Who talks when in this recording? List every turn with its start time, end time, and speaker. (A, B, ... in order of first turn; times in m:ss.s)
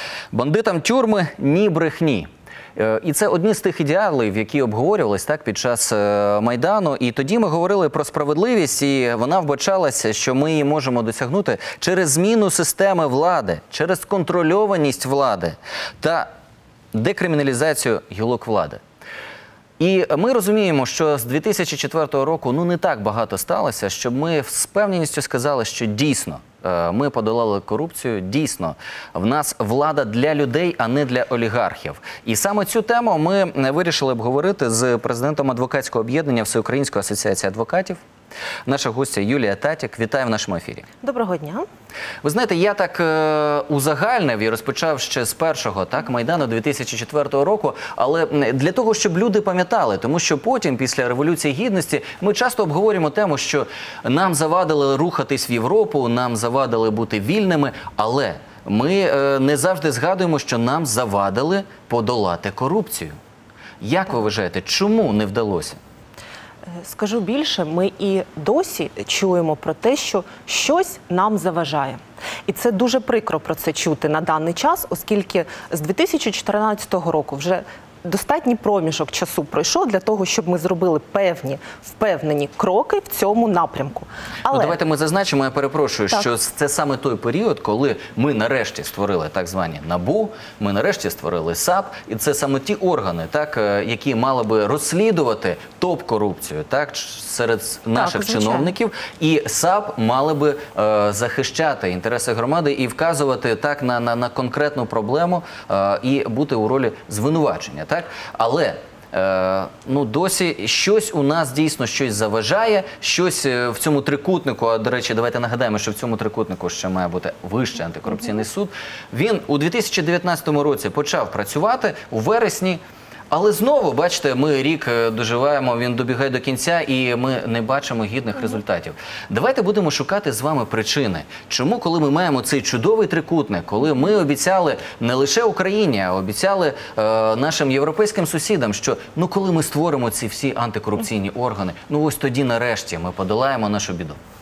0:00.3-0:16.3 A
0:16.9-0:18.8 A
0:19.8-0:38.0 A
0:38.7-0:40.9 A
0:41.0-0:41.7 B
0:42.2-1:03.2 A
1:03.8-1:05.8 A
1:06.8-1:24.8 B
1:24.5-2:02.8 A
1:38.0-1:38.7 B
2:03.3-2:24.2 A